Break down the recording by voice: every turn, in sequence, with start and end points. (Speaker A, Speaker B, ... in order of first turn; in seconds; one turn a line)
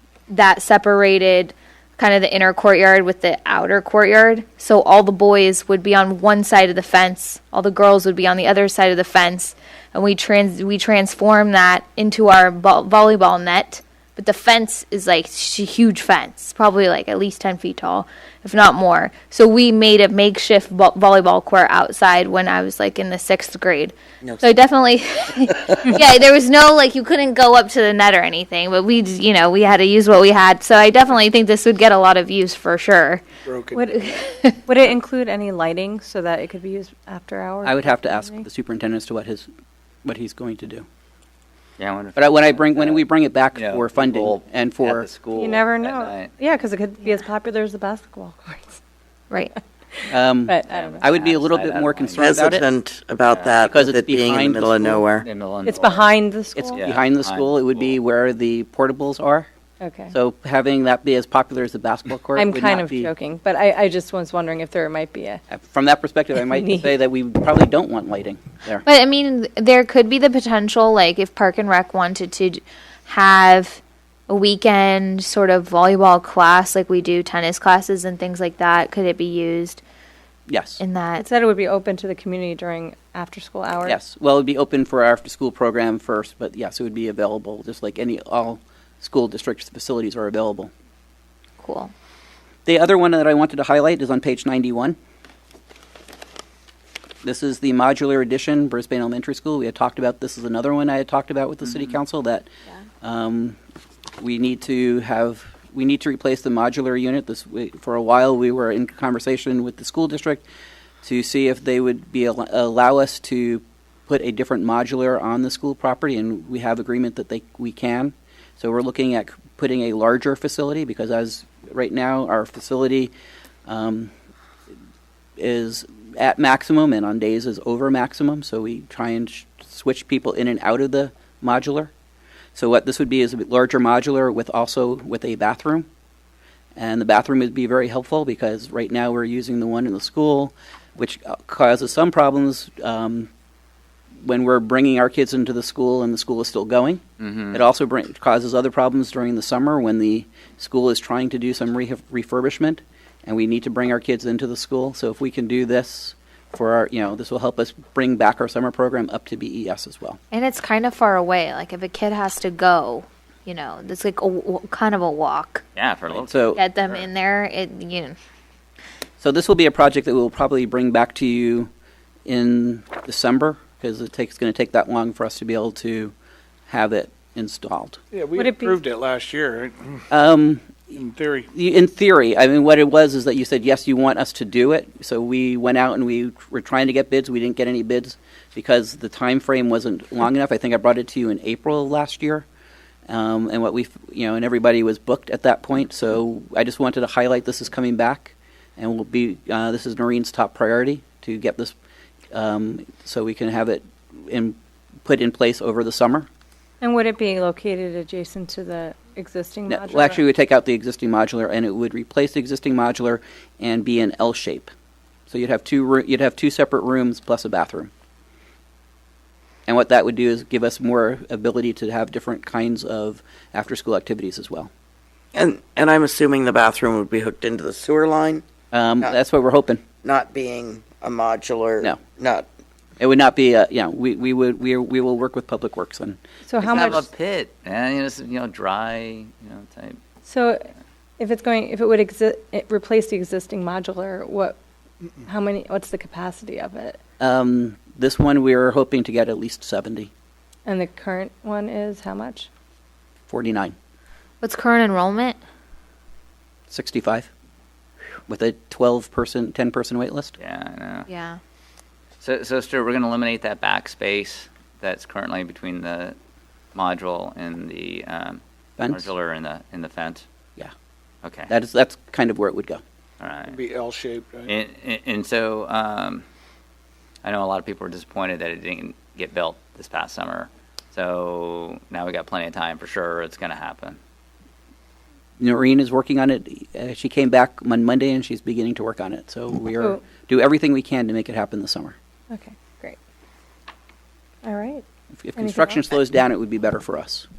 Speaker A: 0.3-33.2
Speaker B: 33.4-33.9
Speaker C: 33.7-38.4
Speaker A: 34.0-34.6
Speaker D: 37.6-39.5
Speaker D: 40.0-40.9
Speaker E: 41.8-46.3
Speaker D: 42.1-45.1
Speaker C: 45.3-48.8
Speaker C: 49.6-51.0
Speaker D: 50.1-52.6
Speaker E: 50.7-52.6
Speaker F: 52.2-55.2
Speaker E: 53.2-53.6
Speaker D: 53.7-55.1
Speaker E: 55.2-56.1
Speaker C: 55.6-56.8
Speaker D: 56.5-59.5
Speaker E: 56.8-58.0
Speaker C: 59.8-60.1
Speaker D: 60.1-63.1
Speaker C: 62.3-65.4
Speaker D: 65.5-68.8
Speaker C: 66.3-66.9
Speaker A: 68.8-79.8
Speaker D: 80.5-80.8
Speaker A: 80.8-81.2
Speaker C: 81.2-84.0
Speaker D: 83.8-90.7
Speaker A: 91.6-91.9
Speaker D: 92.7-95.0
Speaker D: 97.2-102.5
Speaker D: 103.0-103.6
Speaker D: 104.2-110.4
Speaker D: 111.0-123.1
Speaker D: 123.7-124.1
Speaker D: 125.4-131.9
Speaker D: 132.5-135.9
Speaker D: 136.8-143.3
Speaker D: 144.2-160.2
Speaker E: 147.2-147.6
Speaker A: 160.3-165.6
Speaker E: 165.7-166.4
Speaker D: 166.1-166.6
Speaker A: 166.5-168.2
Speaker D: 169.2-171.7
Speaker D: 172.2-176.1
Speaker D: 176.7-178.0
Speaker B: 178.1-180.0
Speaker C: 178.3-178.8
Speaker D: 180.1-181.0
Speaker B: 180.9-181.5
Speaker D: 181.5-192.4
Speaker D: 193.1-201.7
Speaker D: 202.3-206.3
Speaker C: 206.8-210.2
Speaker D: 209.7-214.7
Speaker D: 215.3-217.9
Speaker D: 219.7-224.7
Speaker F: 225.3-228.4
Speaker D: 228.7-229.8
Speaker F: 230.0-232.4
Speaker D: 233.0-236.2
Speaker C: 236.4-237.1
Speaker E: 236.6-240.0
Speaker C: 240.2-244.6
Speaker C: 245.2-247.0
Speaker D: 247.2-250.1
Speaker C: 250.7-252.5
Speaker D: 253.3-253.7
Speaker A: 254.4-255.4
Speaker D: 256.7-257.3
Speaker D: 258.3-260.3
Speaker E: 260.4-261.1
Speaker A: 261.1-261.4
Speaker E: 262.2-266.1
Speaker E: 266.7-270.2
Speaker D: 268.8-269.1
Speaker E: 271.2-271.5
Speaker D: 271.5-272.8
Speaker E: 273.2-273.6
Speaker B: 273.4-274.5
Speaker E: 274.5-276.2
Speaker E: 277.2-284.0
Speaker D: 285.4-291.9
Speaker C: 292.3-293.0
Speaker C: 294.4-294.8
Speaker D: 295.1-297.2
Speaker C: 295.4-295.8